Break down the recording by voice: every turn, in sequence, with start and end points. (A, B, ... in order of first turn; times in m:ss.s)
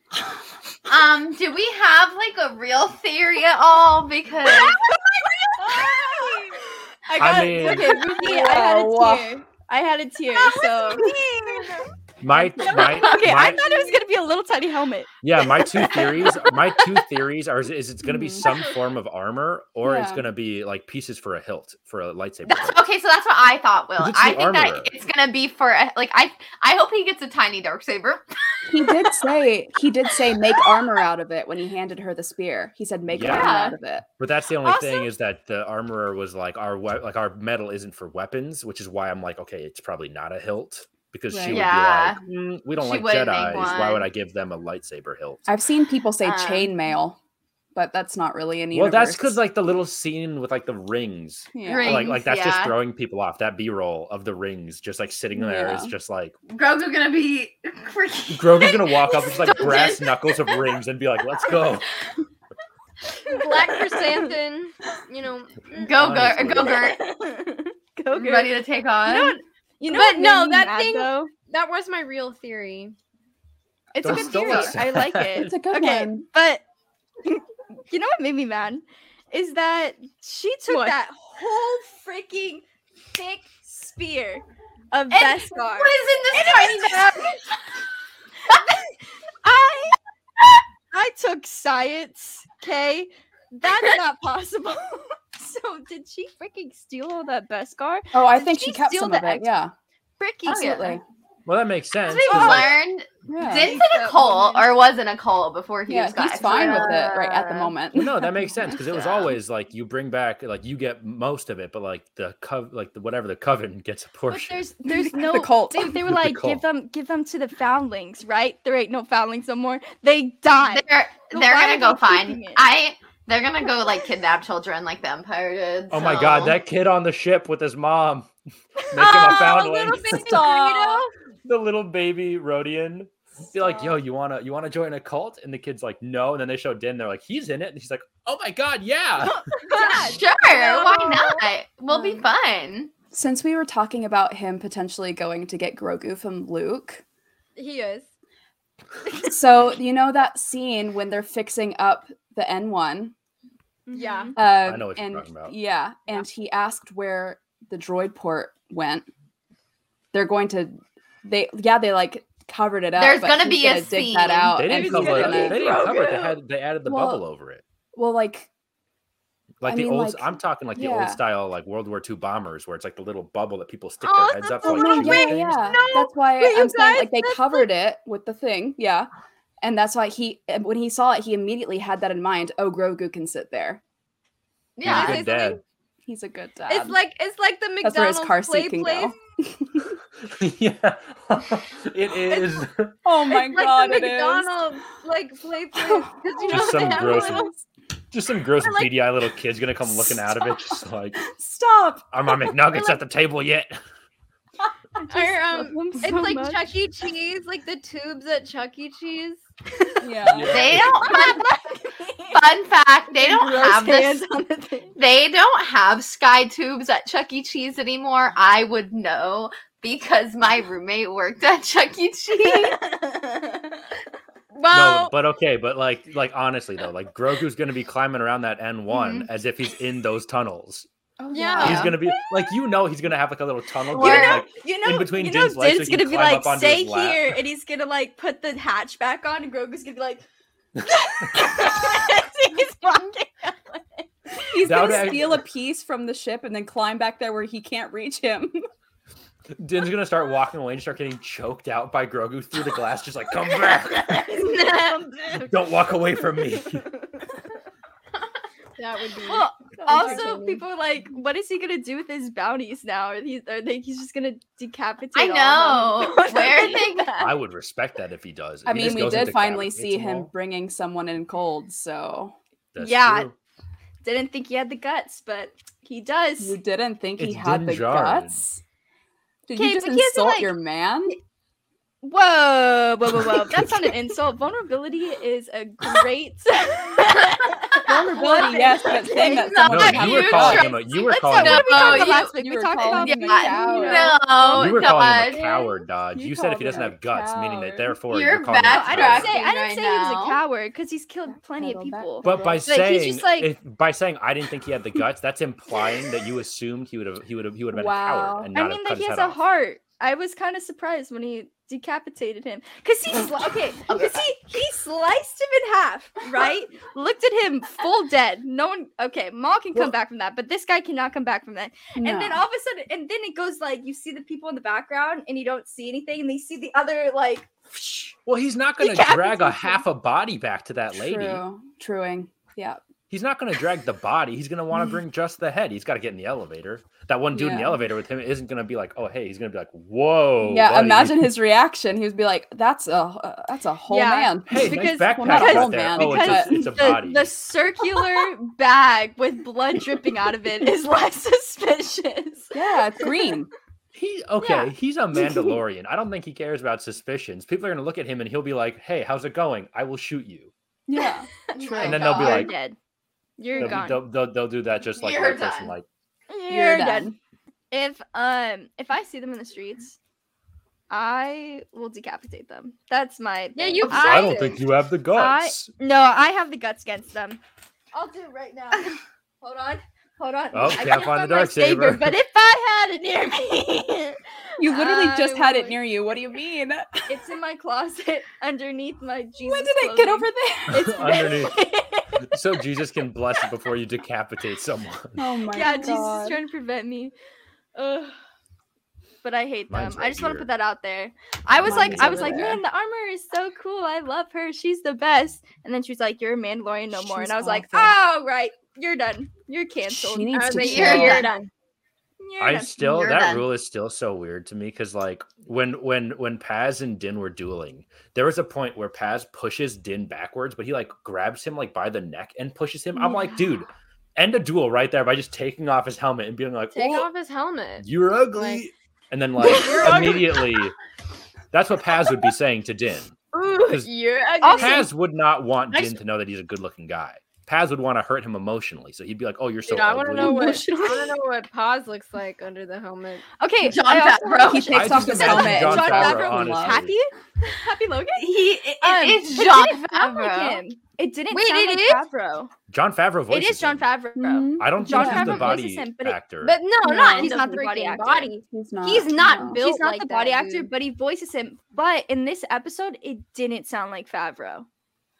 0:00.9-0:04.8 A
0:04.5-0:16.5 B
0:07.2-0:08.0 C
0:07.5-0:09.4 D
0:10.6-0:11.2 D
0:12.2-0:13.6 C
0:15.2-0:22.8 C
0:18.0-0:18.5 D
0:19.8-0:20.2 D
0:22.4-0:28.2 A
0:24.0-0:24.9 C
0:28.7-0:34.0 D
0:28.8-0:29.0 A
0:33.1-0:33.6 C
0:33.2-0:33.8 A
0:34.2-0:45.4 C
0:34.6-0:35.1 B
0:41.3-0:41.6 D
0:41.4-0:42.2 A
0:42.8-0:44.1 A
0:45.5-0:47.2 D
0:46.2-0:46.7 A
0:47.7-0:49.4 D
0:48.7-0:56.4 C
0:51.5-0:52.1 D
0:51.6-0:52.8 A
0:55.3-0:55.9 D
0:56.5-1:00.6 A
0:58.3-1:01.9 C
1:03.2-1:06.0 E
1:03.4-1:04.3 B
1:05.7-1:07.0 A
1:05.9-1:06.8 C
1:06.6-1:11.3 B
1:08.1-1:09.4 A
1:09.9-1:12.9 E
1:13.9-1:16.6 B
1:14.0-1:14.7 D
1:14.0-1:15.5 C
1:14.3-1:14.7 A
1:15.3-1:16.2 D
1:17.2-1:27.4 B
1:25.1-1:27.4 A
1:28.5-1:30.0 B
1:30.9-1:39.5 B
1:38.1-1:39.7 D
1:40.2-1:40.9 B
1:40.4-1:41.0 A
1:40.6-1:41.0 D
1:41.4-1:42.8 C
1:42.0-1:47.7 A
1:42.3-1:42.7 B
1:43.3-1:43.7 D
1:43.5-1:44.6 B
1:45.9-1:48.6 D
1:47.9-1:54.6 C
1:48.8-1:49.3 A
1:54.3-2:02.6 B
1:54.8-1:56.0 D
1:56.0-1:56.6 C
2:00.6-2:06.6 A
2:05.9-2:08.3 C
2:08.9-2:10.5 C
2:09.0-2:11.1 E
2:10.0-2:11.0 D
2:11.4-2:19.4 C
2:13.6-2:13.9 D
2:19.2-2:21.3 B
2:19.7-2:21.3 E
2:20.1-2:22.9 A
2:21.9-2:22.2 E
2:23.1-2:27.0 D
2:27.6-2:28.1 E
2:29.2-2:33.1 D
2:33.9-2:34.3 B
2:33.9-2:34.4 E
2:34.3-2:39.1 D
2:34.6-2:35.5 C
2:40.1-2:45.7 D
2:43.0-2:44.7 A
2:44.5-2:47.6 C
2:44.7-2:46.4 B
2:46.8-2:47.2 D
2:47.9-2:48.5 D
2:49.6-2:55.7 C
2:49.6-2:51.2 D
2:54.1-2:57.6 B
2:54.2-2:56.1 E
2:54.6-2:59.1 D
2:59.6-3:03.8 D
3:04.8-3:05.2 A
3:04.8-3:05.6 E
3:04.8-3:05.6 C
3:06.0-3:07.0 D
3:06.7-3:09.1 E
3:07.8-3:10.0 D
3:10.2-3:13.0 C
3:13.0-3:14.5 D
3:13.3-3:17.5 E
3:15.8-3:17.5 D
3:16.5-3:17.5 C
3:16.9-3:17.2 B
3:18.1-3:21.2 C
3:18.6-3:18.9 E
3:19.8-3:22.5 D
3:22.1-3:23.8 C
3:25.0-3:26.7 B
3:25.1-3:29.4 E
3:29.8-3:32.4 B
3:30.0-3:30.7 D
3:30.2-3:31.0 C
3:30.5-3:31.4 A
3:32.3-3:34.2 A
3:33.1-3:34.9 B
3:35.0-3:42.8 A
3:42.4-3:44.0 B
3:44.5-3:45.1 E
3:44.7-3:50.9 C
3:48.9-3:49.3 A
3:51.2-3:51.9 D
3:51.3-3:51.9 E
3:51.6-3:57.4 C
3:51.6-3:51.9 A
3:53.9-4:00.2 B
3:54.0-3:54.3 E
3:54.0-3:54.4 A
4:00.8-4:01.4 C
4:00.8-4:05.0 B
4:04.5-4:08.6 D
4:04.6-4:05.4 C
4:09.6-4:14.3 C
4:13.6-4:17.4 B
4:14.5-4:15.1 E
4:15.4-4:16.8 C
4:18.8-4:20.6 E
4:19.2-4:27.2 B
4:25.1-4:27.3 A
4:27.2-4:30.3 C
4:28.6-4:32.3 D
4:32.7-4:33.3 C
4:32.8-4:33.3 B
4:34.0-4:36.6 B
4:36.4-4:38.6 D
4:37.2-4:38.4 C
4:39.5-4:41.2 D
4:39.5-4:40.5 B
4:42.0-4:55.6 B
4:43.1-4:43.9 D
4:47.8-4:50.7 D
4:49.4-4:52.3 A
4:49.6-4:52.1 C
4:52.0-4:54.2 D
4:52.9-4:55.4 A
4:54.5-4:59.3 C
4:56.1-4:58.0 D
4:58.1-5:00.4 A
4:58.7-5:03.5 B
5:01.6-5:02.6 D
5:02.2-5:09.4 C
5:07.7-5:08.5 D
5:08.5-5:28.1 B
5:13.9-5:14.2 A
5:22.0-5:22.4 D
5:28.2-5:31.4 C
5:28.8-5:29.8 B
5:30.9-5:32.8 D
5:33.1-5:41.3 C
5:37.3-5:37.8 D
5:40.4-5:46.7 D
5:43.9-5:53.3 B
5:44.5-5:47.3 C
5:52.5-5:53.5 D
5:53.9-6:00.5 C
5:54.4-5:54.7 B
6:00.9-6:01.3 D
6:01.5-6:02.5 A
6:01.8-6:02.8 B
6:01.8-6:02.5 C
6:03.4-6:04.0 B
6:03.6-6:05.8 C
6:05.0-6:05.8 A
6:06.3-6:07.1 B
6:06.5-6:07.2 D
6:07.7-6:10.0 B
6:10.9-6:14.3 B
6:13.5-6:14.6 E
6:13.8-6:15.7 C
6:15.1-6:17.4 B
6:17.9-6:25.8 B
6:20.5-6:22.1 C
6:24.6-6:27.1 D
6:27.1-6:32.6 B
6:29.4-6:31.2 D
6:30.7-6:31.6 C
6:32.2-6:35.2 C
6:35.2-6:36.4 D
6:35.5-6:37.1 B
6:37.7-6:38.2 B
6:39.2-6:50.7 B
6:39.7-6:40.5 C
6:41.6-6:42.5 C
6:41.6-6:42.6 D
6:46.9-6:48.0 D
6:49.9-6:51.3 D
6:50.3-6:51.5 E
6:50.6-6:51.3 A
6:52.2-6:52.7 B
6:52.4-7:07.1 C
6:52.8-6:53.4 A
7:03.0-7:03.3 B
7:06.7-7:08.6 E
7:07.8-7:10.7 C
7:09.4-7:10.6 E
7:09.4-7:10.2 B
7:11.5-7:13.1 C
7:13.3-7:13.7 B
7:13.7-7:14.9 E
7:14.4-7:14.8 B
7:14.6-7:20.6 C
7:19.6-7:23.2 E
7:20.2-7:21.2 B
7:23.4-7:32.5 B
7:23.6-7:25.0 A
7:24.5-7:26.8 D
7:24.7-7:26.9 C
7:28.2-7:30.6 A
7:31.3-7:32.0 E
7:32.7-7:33.8 C
7:33.3-7:36.2 B
7:34.2-7:35.6 D
7:34.6-7:36.6 C
7:36.4-7:40.7 E
7:36.8-7:37.5 D
7:36.8-7:38.3 B
7:38.5-7:39.6 D
7:39.3-7:44.7 B